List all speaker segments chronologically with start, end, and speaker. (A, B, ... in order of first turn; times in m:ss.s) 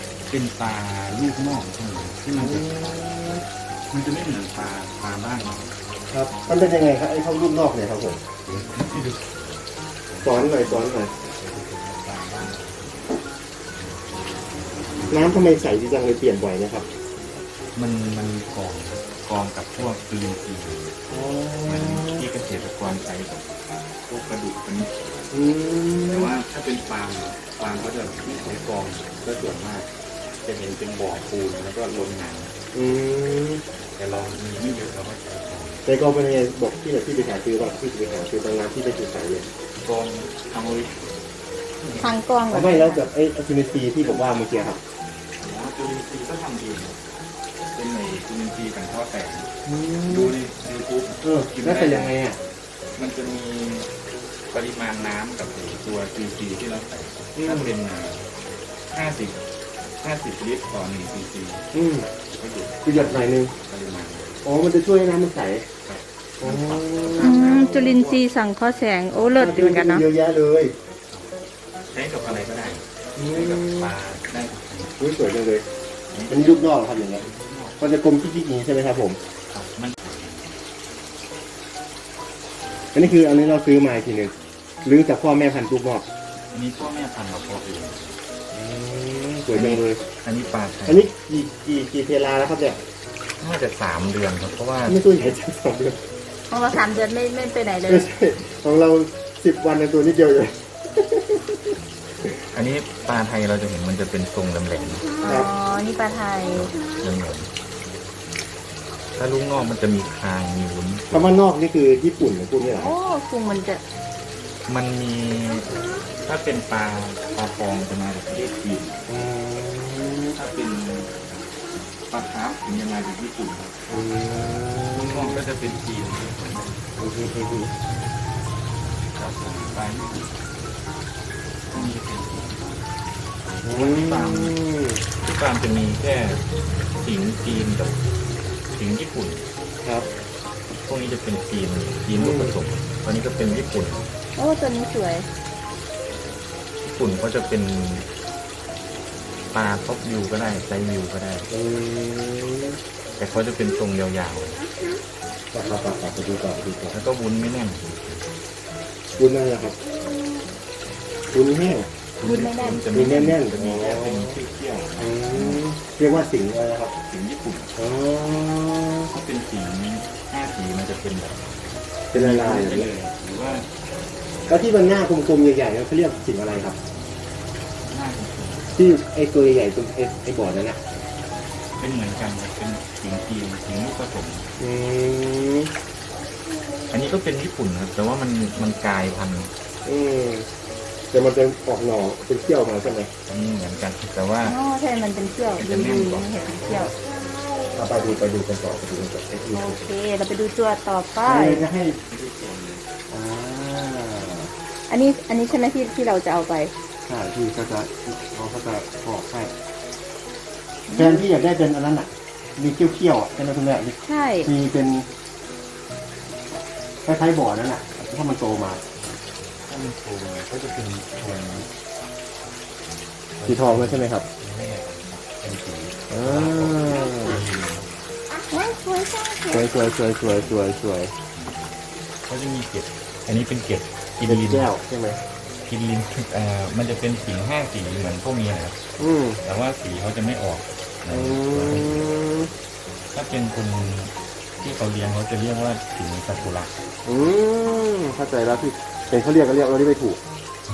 0:00.3-0:02.7 A
0:02.4-0:03.4 B
0:03.9-0:05.8 A
0:06.1-0:08.2 B
0:08.4-0:09.3 A
0:10.1-0:12.9 A
0:10.2-0:11.1 B
0:14.9-0:15.2 A
0:15.1-0:16.9 B
0:17.7-0:20.9 A
0:21.1-0:22.2 B
0:21.6-0:23.4 A
0:24.1-0:25.2 A
0:25.3-0:26.4 B
0:26.1-0:29.9 A
0:30.4-0:32.5 A
0:32.7-0:33.6 B
0:34.0-0:35.8 A
0:35.8-0:39.5 B
0:39.8-0:41.1 A
0:41.8-0:42.1 A
0:42.0-0:43.0 C
0:42.5-0:44.8 B
0:44.0-0:44.7 A
0:45.4-0:47.0 A
0:47.6-0:49.5 A
0:49.6-0:50.3 B
0:50.1-0:52.1 A
0:51.2-0:52.4 B
0:53.0-0:53.9 A
0:54.5-0:58.2 A
0:57.4-0:57.7 B
0:58.9-0:59.4 A
1:00.0-1:01.6 A
1:01.7-1:02.1 B
1:02.3-1:04.4 A
1:02.8-1:03.5 B
1:04.4-1:05.6 B
1:05.8-1:08.2 A
1:06.4-1:07.8 B
1:07.2-1:10.0 C
1:09.3-1:10.7 B
1:11.9-1:14.9 A
1:13.2-1:13.9 B
1:15.0-1:15.6 B
1:16.1-1:17.8 A
1:16.3-1:17.2 B
1:17.8-1:19.2 B
1:19.5-1:20.4 A
1:22.9-1:26.0 B
1:26.5-1:28.2 A
1:28.5-1:30.0 B
1:29.5-1:29.8 C
1:30.2-1:31.0 A
1:30.8-1:32.8 B
1:33.4-1:35.0 A
1:34.8-1:36.0 B
1:36.5-1:38.1 C
1:37.9-1:42.4 B
1:42.5-1:45.4 A
1:45.2-1:46.7 C
1:45.2-1:45.5 B
1:46.5-1:47.5 A
1:49.2-1:51.3 A
1:51.1-1:52.9 B
1:52.8-1:53.8 C
1:54.7-1:59.0 A
1:59.1-2:00.4 B
2:00.3-2:01.1 A
2:02.1-2:03.7 A
2:03.9-2:05.4 B
2:04.9-2:06.8 A
2:07.0-2:07.7 B
2:09.1-2:10.3 A
2:11.7-2:12.7 A
2:13.6-2:15.0 B
2:13.7-2:14.6 A
2:15.2-2:16.4 A
2:17.0-2:18.0 A
2:18.7-2:19.4 A
2:19.8-2:20.1 B
2:20.7-2:24.1 A
2:22.2-2:22.6 B
2:24.4-2:25.3 C
2:26.8-2:28.1 A
2:29.5-2:31.5 A
2:31.5-2:32.8 B
2:33.2-2:34.6 A
2:35.5-2:37.0 B
2:36.9-2:38.2 A
2:39.2-2:39.8 B
2:41.3-2:41.9 B
2:42.2-2:45.6 A
2:42.2-2:42.8 C
2:42.9-2:44.4 B
2:45.0-2:46.9 B
2:47.0-2:47.7 A
2:47.8-2:49.1 B
2:49.1-2:51.5 A
2:52.1-2:53.7 A
2:52.1-2:52.8 B
2:54.5-2:56.8 B
2:57.8-2:59.0 A
2:58.7-3:00.8 B
3:01.8-3:04.5 A
3:04.6-3:05.7 B
3:06.9-3:09.5 A
3:09.8-3:10.5 B
3:11.1-3:13.1 B
3:13.3-3:14.6 A
3:14.4-3:16.9 C
3:15.6-3:16.9 A
3:17.7-3:19.8 B
3:19.5-3:21.6 C
3:21.2-3:22.0 B
3:22.1-3:22.8 A
3:23.1-3:24.5 B
3:24.9-3:26.7 C
3:27.1-3:29.5 B
3:30.9-3:31.2 C
3:30.9-3:35.1 B
3:34.0-3:34.5 C
3:37.0-3:38.8 B
3:39.6-3:41.7 A
3:43.4-3:47.9 A
3:43.4-3:44.2 B
3:46.1-3:47.4 B
3:48.5-3:49.9 C
3:49.5-3:51.1 B
3:50.2-3:50.5 A
3:51.3-3:51.7 A
3:52.3-3:54.7 A
3:54.2-3:55.2 B
3:55.6-3:58.8 A
3:59.0-3:59.4 B
3:59.4-4:02.1 A
4:01.1-4:02.5 B
4:03.1-4:06.7 A
4:07.0-4:10.2 B